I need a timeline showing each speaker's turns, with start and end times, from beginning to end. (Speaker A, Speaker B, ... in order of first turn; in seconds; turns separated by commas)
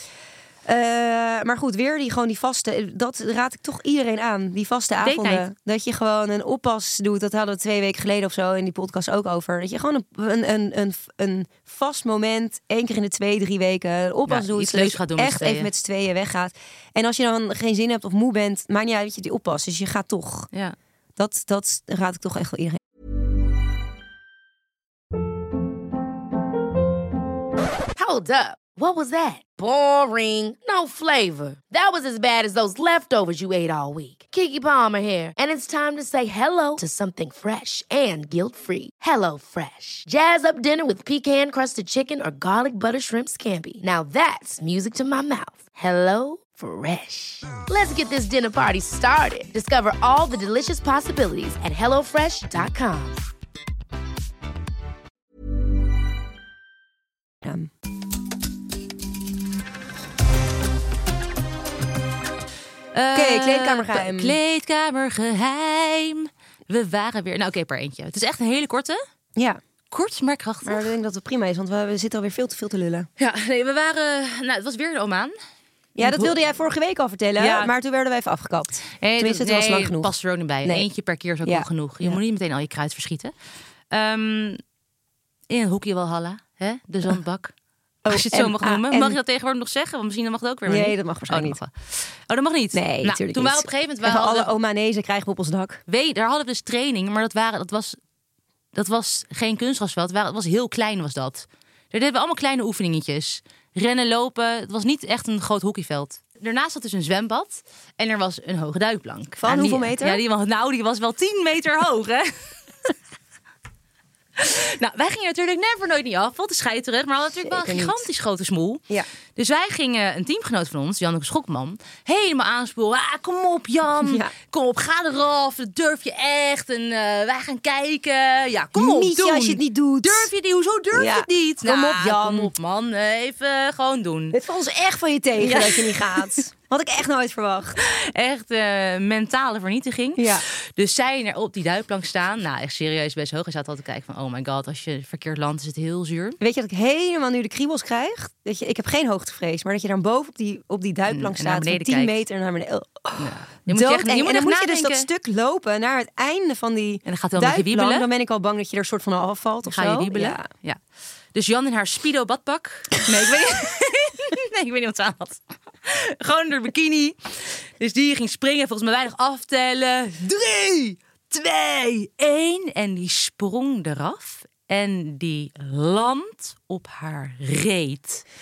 Speaker A: 0.6-20.5, Speaker B: 5.0-5.4, Speaker B: 14.3-15.7, Speaker A: 21.2-22.8, Speaker C: 27.9-53.2, Speaker A: 57.4-57.7, Speaker B: 62.9-69.0, Speaker A: 63.1-64.4, Speaker B: 69.9-70.9, Speaker A: 70.6-73.1, Speaker B: 73.2-75.3, Speaker A: 76.0-80.1, Speaker B: 76.0-76.3, Speaker B: 77.4-77.7, Speaker B: 78.9-83.3, Speaker A: 81.4-82.2, Speaker B: 83.9-84.6, Speaker B: 85.5-87.5, Speaker A: 88.0-89.2, Speaker B: 88.1-94.5, Speaker A: 90.7-91.6, Speaker A: 92.7-95.8, Speaker B: 95.9-98.0, Speaker B: 98.7-112.9, Speaker A: 109.4-110.2, Speaker B: 114.4-118.8, Speaker A: 117.4-118.0, Speaker B: 119.3-134.4, Speaker A: 124.0-124.3, Speaker A: 128.7-130.3, Speaker A: 130.9-132.5, Speaker A: 134.3-137.8, Speaker B: 135.4-136.4, Speaker B: 137.8-146.4, Speaker A: 140.2-140.4, Speaker A: 146.4-160.5, Speaker B: 151.1-152.2, Speaker B: 153.2-155.1, Speaker B: 157.1-158.1, Speaker B: 159.7-160.8, Speaker B: 161.3-178.2